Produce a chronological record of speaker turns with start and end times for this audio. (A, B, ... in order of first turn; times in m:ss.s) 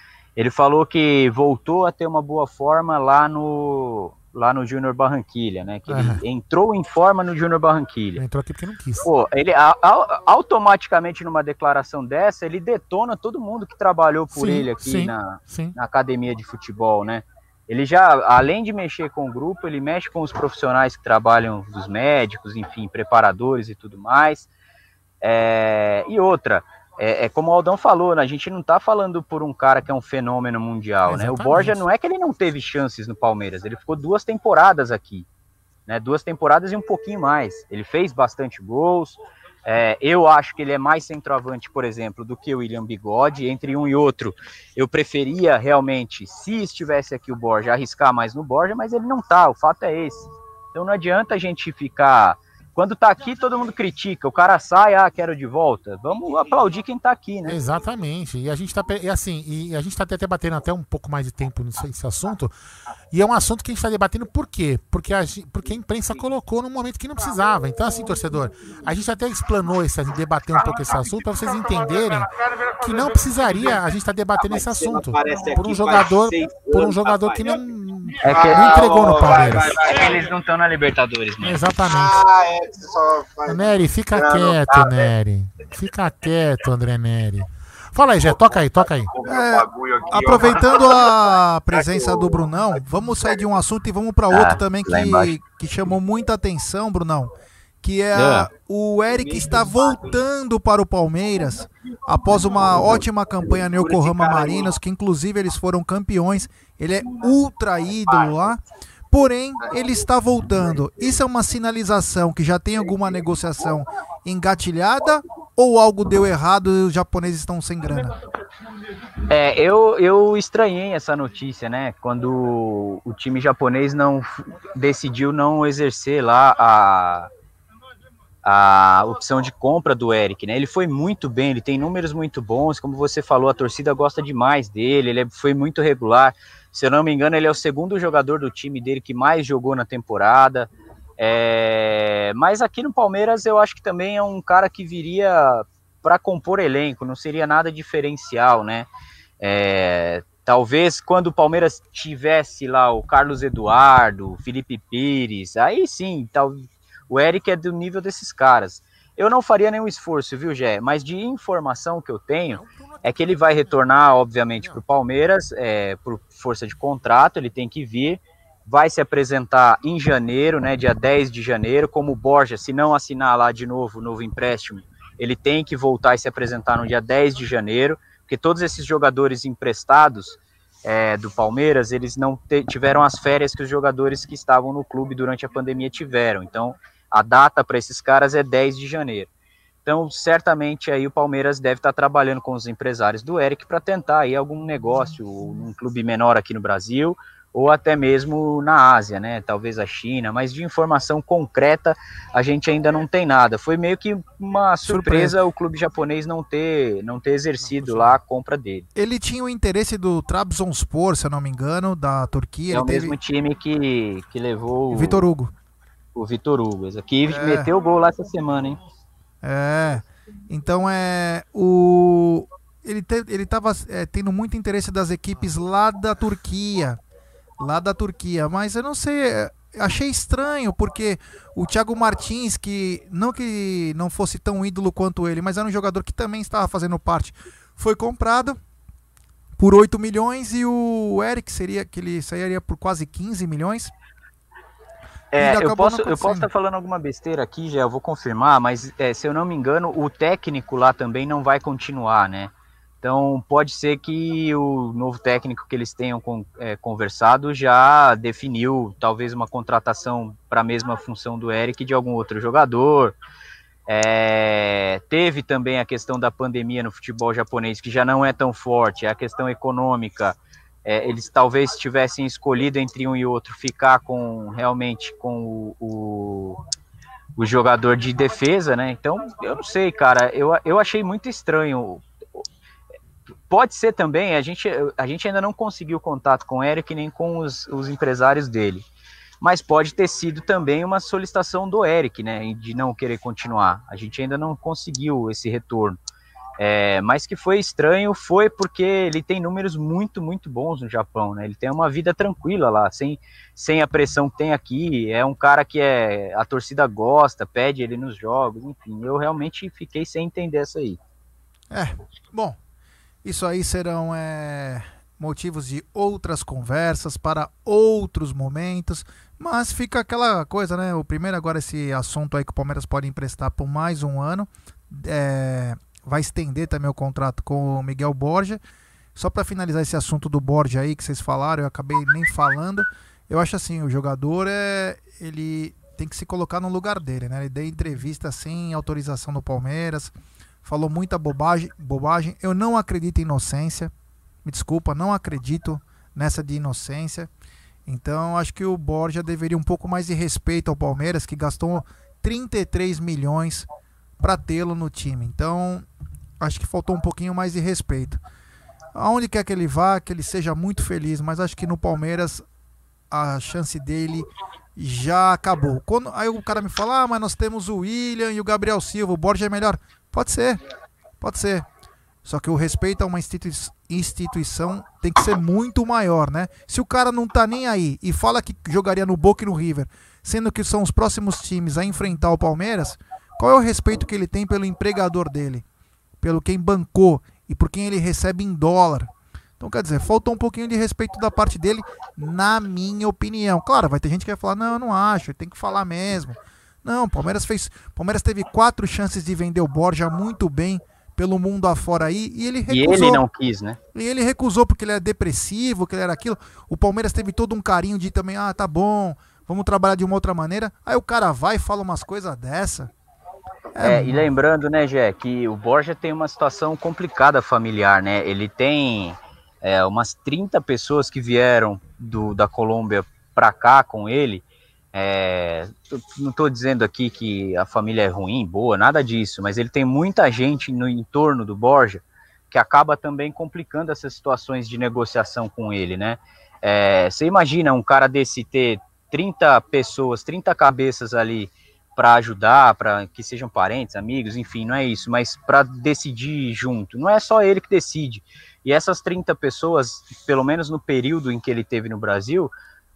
0:00.4-0:08.2 A
0:05.9-0:06.2 B
0:08.2-0:09.1 B
0:09.0-0:24.5 A
0:14.3-0:15.7 B
0:25.2-0:35.3 A
0:31.0-0:31.8 B
0:35.9-0:57.6 A
0:57.5-1:02.5 B
1:03.1-1:19.9 B
1:14.4-1:17.4 A
1:18.2-1:23.3 A
1:21.4-1:22.2 B
1:23.4-1:29.1 B
1:24.2-1:24.9 A
1:29.1-1:30.8 A
1:29.3-1:48.6 C
1:34.3-1:35.4 A
1:38.1-1:38.5 A
1:39.4-1:40.0 A
1:44.0-1:44.5 A
1:49.1-1:58.1 C
1:59.3-2:07.3 A
2:08.4-2:28.9 A
2:29.4-3:09.3 A
2:42.5-2:43.8 B
3:09.8-3:28.8 A
3:24.8-3:25.4 C
3:27.6-3:28.2 B
3:29.0-3:33.2 C
3:32.7-3:35.2 A
3:34.9-3:35.5 C
3:36.1-3:38.8 A
3:37.3-3:37.7 C
3:39.4-3:47.0 C
3:47.6-3:58.6 C
3:59.6-4:03.9 C
4:05.3-4:23.2 A
4:05.4-4:06.5 C
4:23.9-4:36.6 A
4:37.4-4:42.4 A
4:43.5-4:48.8 A
4:49.4-4:56.0 A
4:56.6-5:11.0 A
5:11.7-5:12.6 C
5:13.2-5:28.6 C
5:29.2-5:40.1 C
5:40.6-5:43.9 C
5:44.4-5:47.3 C
5:47.8-5:53.7 C
5:54.2-5:55.8 C
5:56.4-5:58.2 C
5:58.9-6:02.4 C
6:03.1-6:10.6 C
6:11.2-6:11.6 C
6:12.2-6:25.6 C
6:26.2-6:43.2 C
6:42.7-6:43.8 A
6:43.9-6:52.9 C
6:53.8-6:54.3 C
6:53.8-7:32.5 A